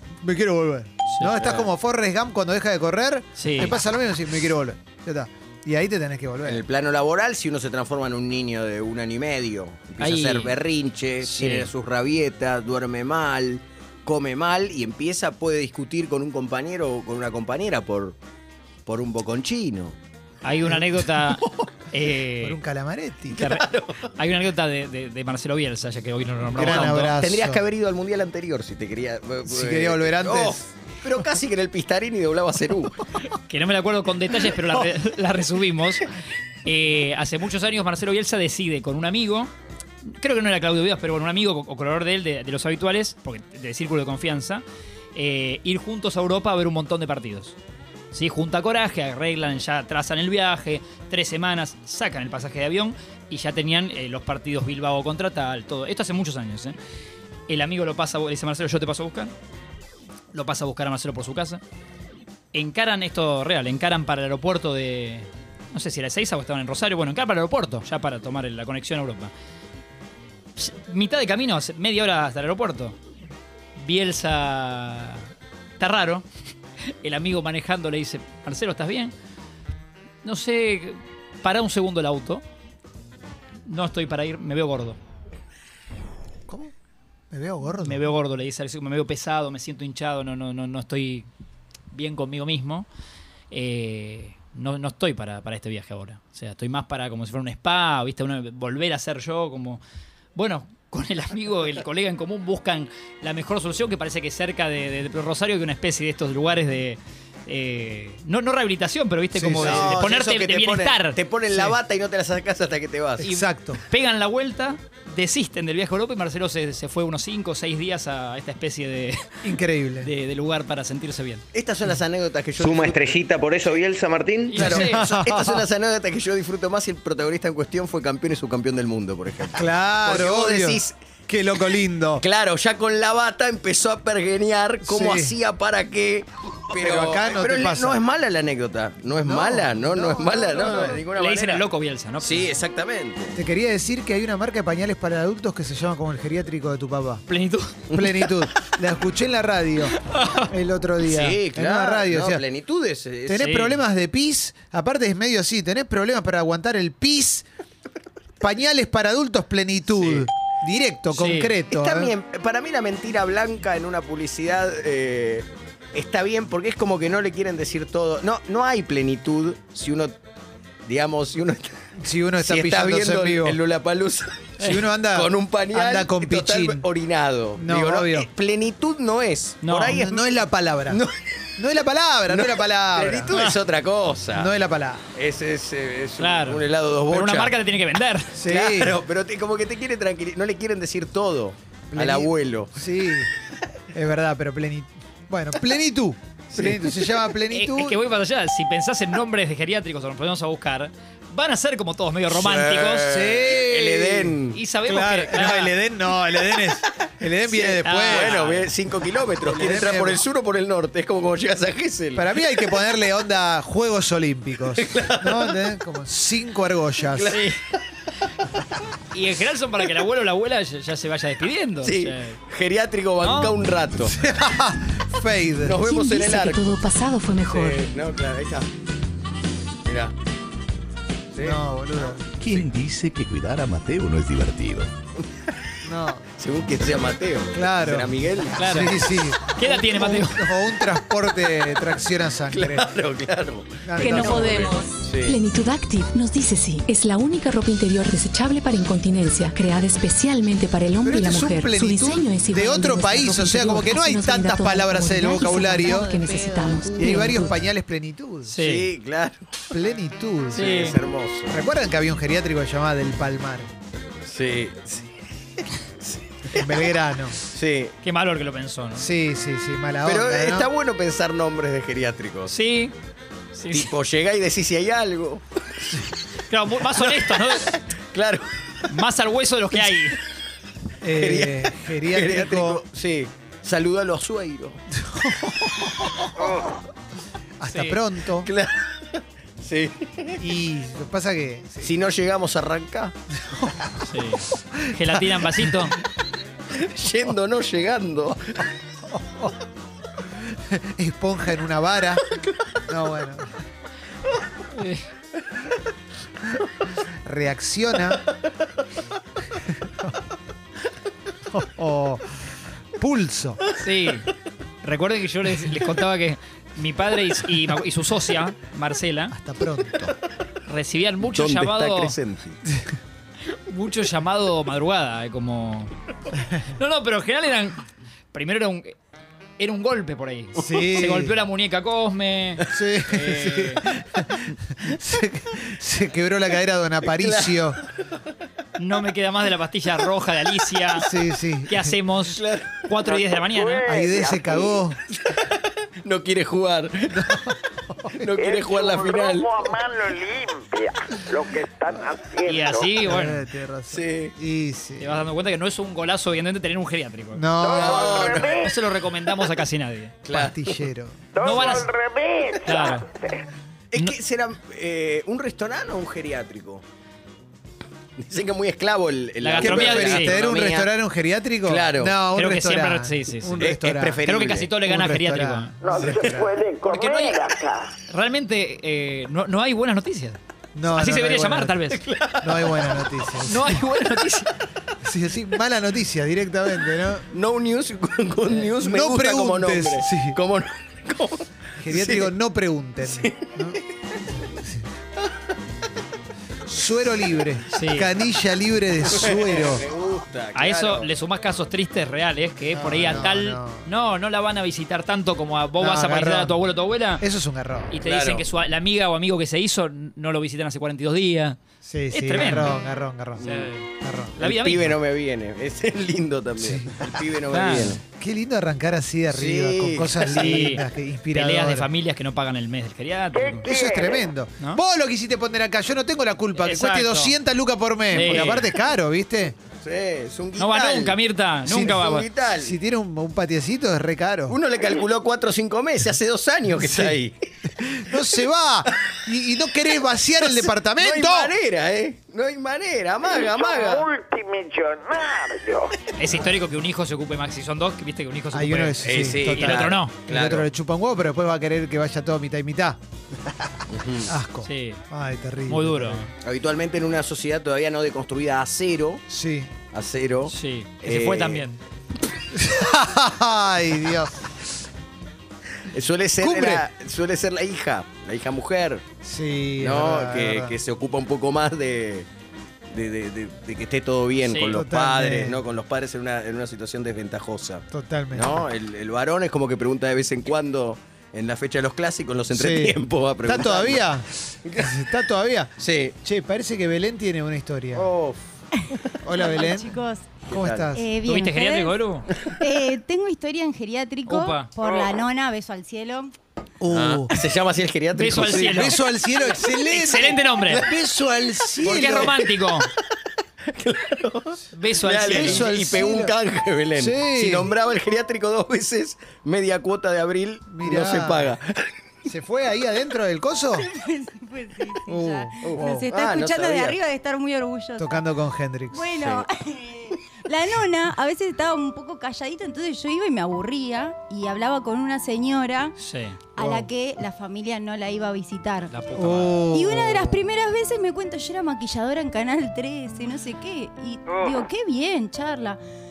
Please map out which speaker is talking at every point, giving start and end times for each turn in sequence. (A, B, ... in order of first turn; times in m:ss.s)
0:00.2-0:06.6 A
0:01.4-0:01.7 B
0:03.4-0:03.8 C
0:06.4-0:18.2 B
0:10.0-0:10.5 C
0:11.2-0:11.7 C
0:18.8-0:20.0 B
0:20.4-0:22.6 C
0:21.4-0:21.6 B
0:22.4-0:23.4 A
0:23.3-0:24.1 B
0:23.3-0:27.2 C
0:26.5-0:27.6 A
0:26.6-0:33.0 B
0:29.4-0:30.6 A
0:33.5-0:36.1 C
0:36.6-0:39.5 C
0:40.0-0:44.6 C
0:45.1-0:47.6 C
0:48.1-0:56.7 C
0:57.5-0:59.3 C
1:00.3-1:01.6 C
1:02.5-1:09.3 C
1:10.6-1:13.0 C
1:13.8-1:16.2 C
1:16.8-1:19.1 C
1:20.2-1:22.4 C
1:23.7-1:25.0 C
1:26.5-1:26.7 A
1:27.3-1:28.0 A
1:27.8-1:31.3 C
1:31.9-1:32.9 C
1:33.5-1:39.8 C
1:40.3-1:51.2 C
1:49.3-1:50.0 A
1:49.6-1:53.2 B
1:53.2-1:53.8 A
1:53.2-1:59.4 C
1:59.4-2:00.1 A
2:00.0-2:01.4 C
2:01.5-2:10.9 B
2:04.5-2:05.0 C
2:04.6-2:05.6 A
2:09.5-2:12.2 A
2:12.2-2:21.6 B
2:14.8-2:15.4 A
2:16.7-2:18.0 A
2:19.1-2:21.0 A
2:20.6-2:22.5 C
2:22.2-2:23.4 B
2:23.4-2:27.2 A
2:27.3-2:27.8 C
2:27.9-2:30.0 A
2:30.0-2:30.5 C
2:30.5-2:32.4 A
2:31.0-2:33.6 B
2:33.3-2:37.4 A
2:33.3-2:33.7 C
2:38.4-2:42.1 A
2:40.0-2:40.3 B
2:41.1-2:41.5 C
2:41.7-2:50.1 B
2:50.9-2:51.8 B
2:52.0-2:53.6 A
2:52.4-3:00.2 B
2:54.6-2:56.8 A
2:57.6-2:58.3 A
2:59.6-3:00.0 C
2:59.8-3:01.0 A
3:00.9-3:01.5 B
3:01.6-3:03.4 A
3:02.3-3:04.5 B
3:04.3-3:05.0 A
3:05.1-3:07.6 B
3:06.2-3:08.3 C
3:08.3-3:09.0 A
3:08.4-3:12.8 B
3:11.9-3:13.3 A
3:13.9-3:18.0 A
3:16.5-3:17.2 B
3:17.5-3:23.1 C
3:22.3-3:24.6 B
3:23.0-3:28.4 A
3:24.5-3:25.7 C
3:27.5-3:32.7 B
3:27.8-3:28.7 C
3:29.4-3:30.2 A
3:32.1-3:37.4 A
3:34.8-3:35.6 B
3:37.1-3:37.5 B
3:37.3-3:37.6 C
3:39.1-3:42.4 C
3:41.8-3:44.2 B
3:43.2-3:43.6 C
3:44.1-3:45.8 A
3:45.6-3:46.7 B
3:45.8-3:47.8 D
3:47.4-3:48.7 B
3:49.8-3:50.1 B
3:51.3-3:51.6 B
3:51.4-3:52.2 A
3:52.4-3:54.9 E
3:55.8-3:56.2 A
3:56.4-3:58.9 B
3:57.5-4:02.9 A
3:58.6-4:00.4 C
4:02.5-4:05.4 B
4:03.8-4:04.8 A
4:04.0-4:17.6 D
4:04.2-4:04.9 F
4:11.0-4:18.5 A
4:16.2-4:16.8 G
4:18.5-4:18.9 C
4:18.6-4:19.6 B
4:19.7-4:20.8 A
4:20.5-4:21.0 C
4:20.5-4:21.6 B
4:21.5-4:23.7 A
4:24.2-4:25.1 B
4:26.0-4:28.0 B
4:26.5-4:27.4 A
4:28.0-4:29.1 C
4:29.0-4:30.7 A
4:30.0-4:32.5 B
4:32.5-4:32.9 C
4:33.5-4:33.9 C
4:33.7-4:36.1 B
4:36.5-4:37.8 C
4:36.9-4:38.8 B
4:38.9-4:40.2 C
4:41.0-4:42.8 A
4:41.1-4:44.8 B
4:45.0-4:46.4 A
4:46.4-4:46.6 B
4:47.6-4:48.5 A
4:47.7-4:48.0 C
4:48.4-4:50.4 B
4:50.4-4:52.0 A
4:51.8-4:53.1 B
4:53.4-4:54.0 A
4:54.0-4:56.0 C
4:54.6-4:55.9 A
4:56.7-4:58.7 B
4:59.1-4:59.5 A
5:00.5-5:02.3 A
5:02.8-5:03.5 A
5:04.7-5:05.0 C
5:07.0-5:08.2 A
5:09.8-5:10.2 A
5:11.5-5:13.6 A
5:13.7-5:14.3 C
5:14.8-5:19.3 C
5:19.3-5:20.1 A
5:20.6-5:22.2 C
5:21.2-5:22.6 B
5:23.6-5:25.9 C
5:26.7-5:27.8 C
5:28.3-5:29.0 C
5:29.6-5:32.6 C
5:30.6-5:31.4 A
5:32.7-5:37.8 A
5:33.1-5:33.8 B
5:37.0-5:37.8 B
5:38.8-5:41.1 C
5:41.0-5:42.0 A
5:41.7-5:44.0 C
5:42.2-5:43.4 B
5:43.6-5:44.5 F
5:43.8-5:45.0 A
5:44.1-5:44.6 B
5:45.1-5:47.5 B
5:47.1-5:48.2 A
5:48.1-5:49.8 B
5:48.4-5:52.7 F
5:52.4-5:53.4 C
5:53.0-5:55.2 A
5:53.9-5:54.3 B
5:55.0-5:57.5 C
5:57.3-5:58.4 A
5:57.6-5:58.7 B
5:57.8-5:58.2 F
5:58.2-6:00.2 C
6:00.2-6:00.8 B
6:00.3-6:01.4 A
6:01.4-6:01.9 C
6:01.4-6:02.6 F
6:02.6-6:03.1 C
6:03.9-6:06.8 B
6:08.2-6:10.9 B
6:09.4-6:10.4 C
6:09.6-6:14.2 A
6:11.6-6:12.2 B
6:12.3-6:13.6 C
6:13.6-6:14.7 B
6:14.2-6:16.1 C
6:14.8-6:16.6 A
6:15.9-6:17.9 F
6:16.0-6:16.4 B
6:16.8-6:17.5 C
6:18.1-6:22.0 C
6:20.7-6:21.9 A
6:21.9-6:23.2 B
6:22.4-6:23.8 A
6:23.4-6:24.5 C
6:25.0-6:27.3 A
6:27.3-6:32.3 B
6:28.7-6:30.4 A
6:31.8-6:33.8 A
6:33.1-6:33.8 B
6:34.3-6:34.9 A
6:36.6-6:39.8 A
6:37.7-6:38.1 C
6:39.0-6:41.1 B
6:40.5-6:47.2 C
6:42.7-6:43.9 A
6:45.8-6:46.6 A
6:47.2-6:47.9 A
6:47.9-6:51.6 C
6:48.0-6:48.4 B
6:51.8-6:54.4 A
6:52.1-6:52.7 C
6:53.4-6:53.9 C
6:53.4-6:53.7 B
6:54.4-6:54.9 C
6:54.4-6:58.0 B
6:56.6-6:57.1 A
6:57.5-6:58.0 C
6:58.1-7:01.9 A
6:59.3-7:00.7 B
7:00.3-7:00.8 C
7:01.3-7:03.7 C
7:03.6-7:04.2 F
7:03.6-7:09.6 A
7:06.6-7:07.3 C
7:08.1-7:08.7 C
7:08.2-7:08.4 B
7:09.8-7:12.7 B
7:10.6-7:12.2 C
7:11.7-7:12.0 A
7:12.6-7:14.6 A
7:14.5-7:17.3 B
7:16.7-7:17.2 A
7:17.7-7:21.5 A
7:18.9-7:19.2 B
7:20.4-7:24.1 B
7:23.5-7:25.9 F
7:26.2-7:30.1 C
7:28.5-7:33.0 A
7:29.0-7:30.7 B
7:33.9-7:34.3 B
7:34.2-7:36.3 A
7:34.6-7:35.0 C
7:35.7-7:36.3 C
7:36.4-7:39.2 B
7:39.3-7:39.7 A
7:39.9-7:41.6 B
7:40.5-7:41.8 C
7:42.5-7:44.5 A
7:45.8-7:49.0 B
7:46.4-7:46.8 A
7:49.2-7:50.8 A
7:49.8-7:52.3 B
7:52.9-8:04.1 B
7:54.4-7:54.7 C
7:54.7-7:55.6 A
7:57.9-7:58.6 A
8:02.5-8:08.1 A
8:04.6-8:04.9 B
8:05.8-8:06.1 B
8:07.9-8:08.4 B
8:09.2-8:10.0 A
8:09.3-8:12.0 G
8:10.5-8:10.9 B
8:10.5-8:11.0 A
8:11.2-8:12.3 C
8:12.6-8:16.3 G
8:14.2-8:14.7 C
8:14.8-8:15.1 B
8:16.8-8:17.4 A
8:16.9-8:18.9 B
8:18.1-8:19.0 C
8:18.4-8:22.4 A
8:19.7-8:20.9 C
8:21.8-8:22.9 B
8:21.8-8:22.9 C
8:23.7-8:31.9 B
8:24.7-8:26.0 C
8:25.3-8:26.3 A
8:27.0-8:27.7 A
8:30.7-8:31.6 A
8:32.2-8:33.9 A
8:33.8-8:38.2 G
8:35.1-8:36.0 A
8:35.6-8:37.0 B
8:38.0-8:39.2 A
8:38.9-8:45.9 G
8:46.0-8:46.4 C
8:46.6-8:48.9 G
8:46.6-8:46.9 A
8:48.9-8:49.7 C
8:49.1-8:50.4 A
8:49.7-8:55.8 G